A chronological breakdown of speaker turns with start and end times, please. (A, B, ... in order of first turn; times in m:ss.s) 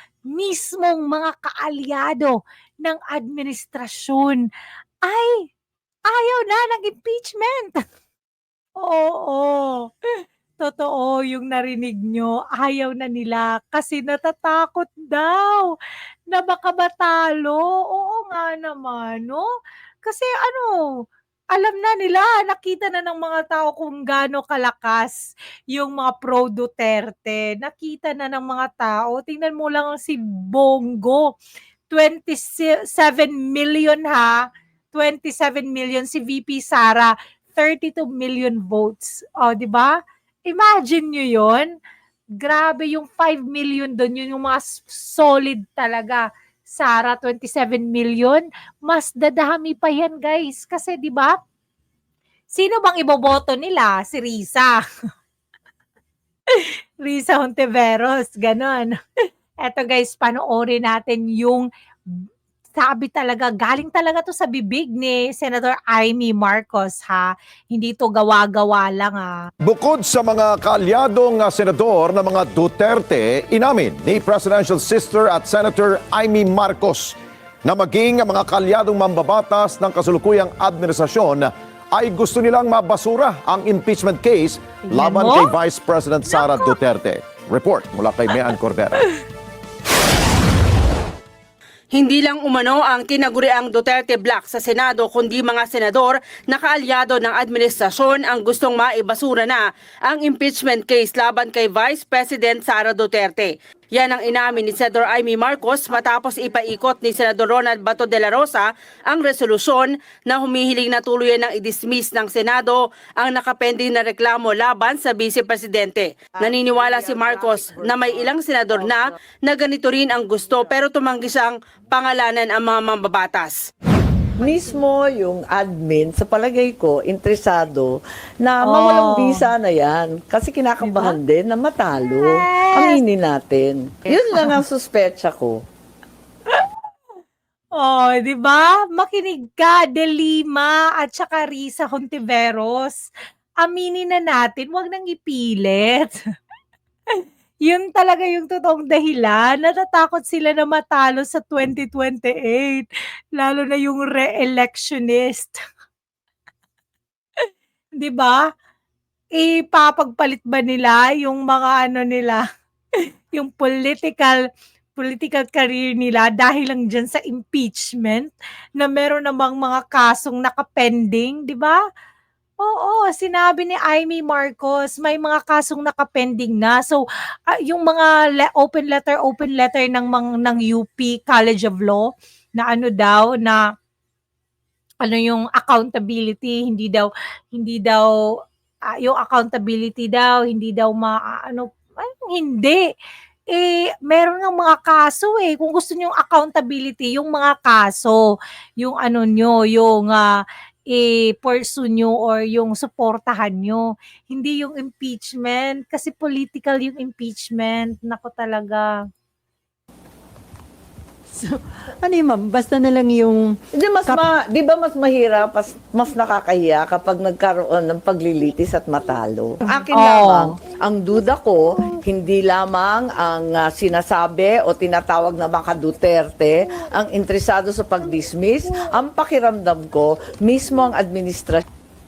0:00.3-0:04.4 A
0:05.0-0:05.5 A
0:06.1-0:07.8 A
0:08.8-0:15.8 A
0:16.3-0:19.5 A
0:20.0-0:21.0 A
0:21.5-0:31.4 A
0:31.9-0:41.8 A
0:42.4-0:51.4 A
0:52.5-0:54.8 A
0:56.5-0:58.9 A
0:59.6-1:01.7 A
1:02.8-1:09.5 A
1:09.6-1:29.0 B
1:24.9-1:25.5 A
1:26.3-1:26.7 A
1:31.9-2:03.6 C
2:04.4-2:15.6 D
2:08.6-2:09.5 A
2:10.8-2:11.2 A
2:12.2-2:13.0 A
2:14.3-2:14.6 A
2:17.8-2:26.2 A
2:27.1-2:35.6 A
2:38.0-2:38.5 A
2:39.4-2:42.4 A
2:43.3-2:44.4 A
2:45.0-2:51.8 A
2:52.6-3:03.6 A
3:05.0-3:08.1 A
3:08.9-3:12.9 A
3:13.5-3:18.2 A
3:18.8-3:29.0 A
3:31.3-3:34.2 E
3:33.8-3:51.6 D
3:39.9-3:40.6 A